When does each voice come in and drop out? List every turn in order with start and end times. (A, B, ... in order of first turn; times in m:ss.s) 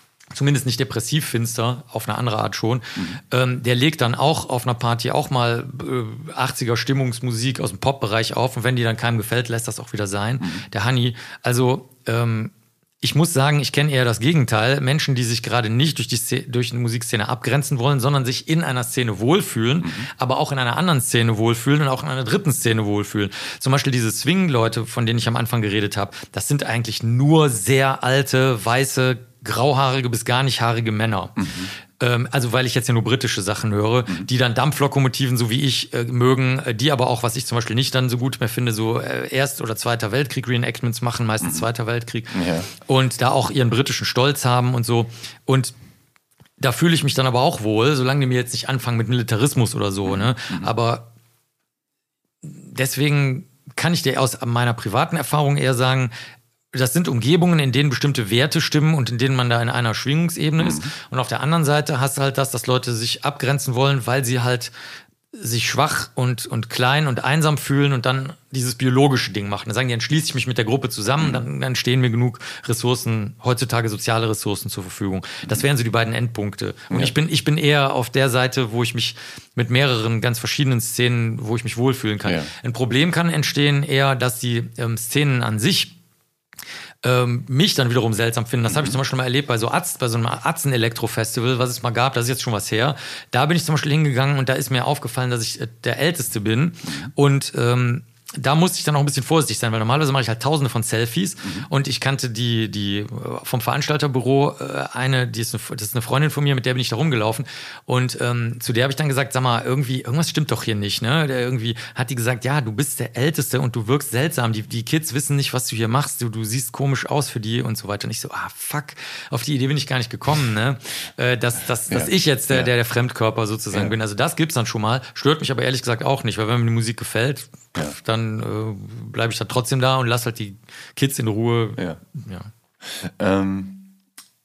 0:00.3-0:31.5 A
0:31.4-0:31.7 B
0:32.0-0:45.7 A
0:42.3-0:42.7 B
0:46.6-0:51.1 A
0:50.1-0:50.7 B
0:52.4-0:56.1 A
0:56.7-1:04.7 A
1:00.6-1:00.9 B
1:05.3-1:25.9 A
1:22.2-1:22.5 B
1:27.0-2:12.5 A
1:28.7-1:29.0 B
2:01.9-2:02.7 B
2:12.8-2:13.9 B